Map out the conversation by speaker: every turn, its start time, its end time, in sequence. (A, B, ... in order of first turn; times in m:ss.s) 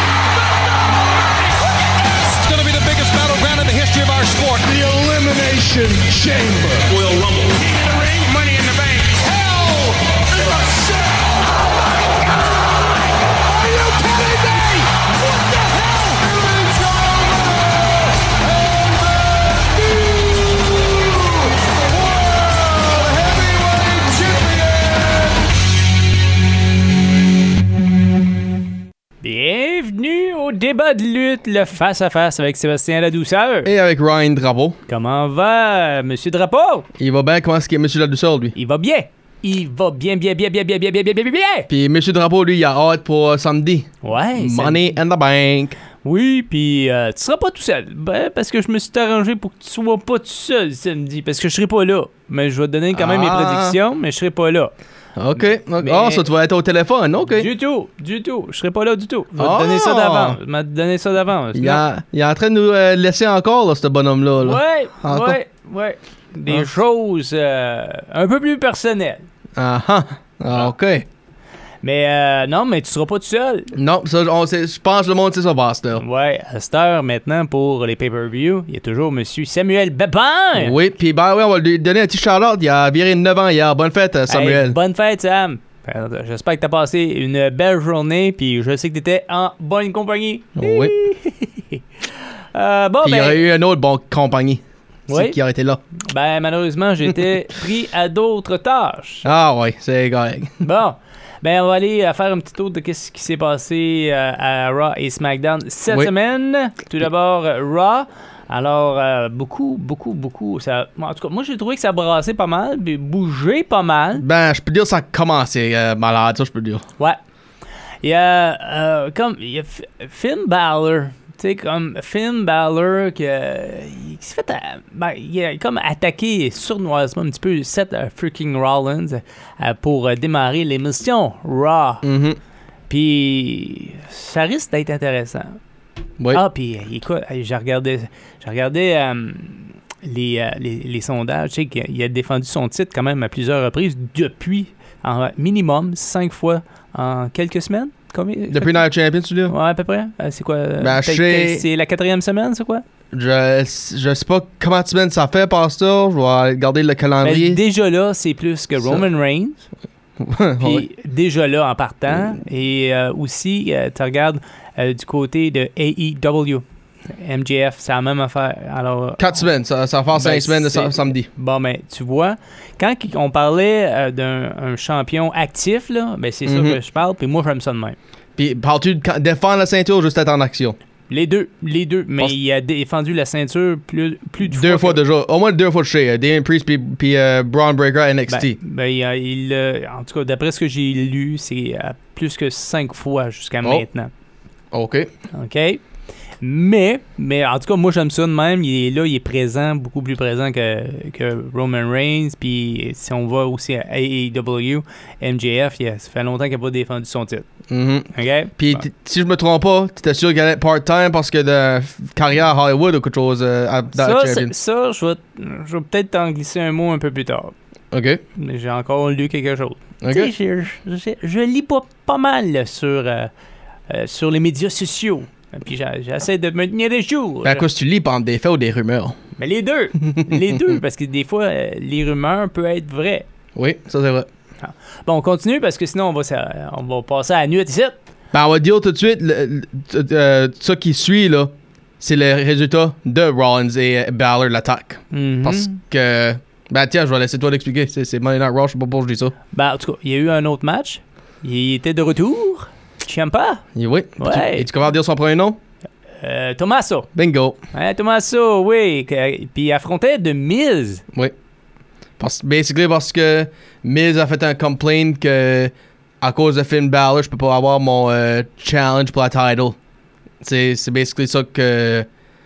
0:02.0-0:04.8 A
0:04.7-0:11.4 B
0:06.9-0:09.4 A
0:13.5-0:25.5 B
0:29.2-0:33.7 C
0:33.6-0:34.8 D
0:34.9-0:36.9 C
0:37.0-0:38.6 D
0:38.6-0:41.7 C
0:41.7-0:45.8 D
0:44.0-0:44.8 C
0:46.0-0:54.7 C
0:52.9-0:53.8 D
0:55.2-0:57.5 D
0:55.8-0:56.2 C
0:57.3-1:01.8 C
0:59.4-1:00.4 D
1:01.5-1:05.4 D
1:04.4-1:09.2 C
1:09.6-1:11.0 D
1:11.8-1:13.7 C
1:13.7-1:16.0 D
1:16.0-1:20.8 C
1:20.5-1:24.8 D
1:24.3-1:33.4 C
1:30.6-1:30.9 D
1:33.0-1:35.8 D
1:35.1-1:35.4 C
1:36.1-1:39.3 C
1:39.2-1:40.5 D
1:40.6-1:54.2 C
1:54.2-1:56.8 D
1:58.0-2:12.0 C
2:12.0-2:12.4 D
2:12.9-2:15.6 C
2:16.3-2:28.8 C
2:28.5-2:29.5 D
2:29.5-2:32.8 C
2:30.8-2:31.7 D
2:33.1-2:37.6 D
2:37.2-2:39.7 C
2:38.8-2:39.0 D
2:40.2-2:40.9 D
2:40.6-2:49.4 C
2:49.2-2:51.3 D
2:50.1-2:58.0 C
2:56.5-2:56.8 D
2:58.4-3:00.8 D
3:01.1-3:05.0 C
3:04.4-3:08.6 D
3:08.3-3:14.1 C
3:14.7-3:15.1 D
3:15.3-3:15.8 C
3:16.4-3:27.4 C
3:27.7-3:34.5 D
3:28.1-3:28.8 C
3:33.9-3:37.5 C
3:37.9-3:38.2 D
3:38.4-3:43.3 C
3:40.0-3:40.3 D
3:43.9-3:47.7 C
3:47.4-3:49.2 D
3:49.4-3:53.3 C
3:50.1-3:50.6 D
3:53.6-3:54.3 D
3:54.6-3:58.0 C
3:58.3-4:09.3 D
4:05.1-4:05.8 C
4:09.5-4:13.6 C
4:13.8-4:15.6 D
4:14.2-4:14.7 C
4:16.2-4:17.1 C
4:17.2-4:17.6 D
4:17.7-4:21.0 C
4:22.2-4:29.8 D
4:30.4-4:32.1 D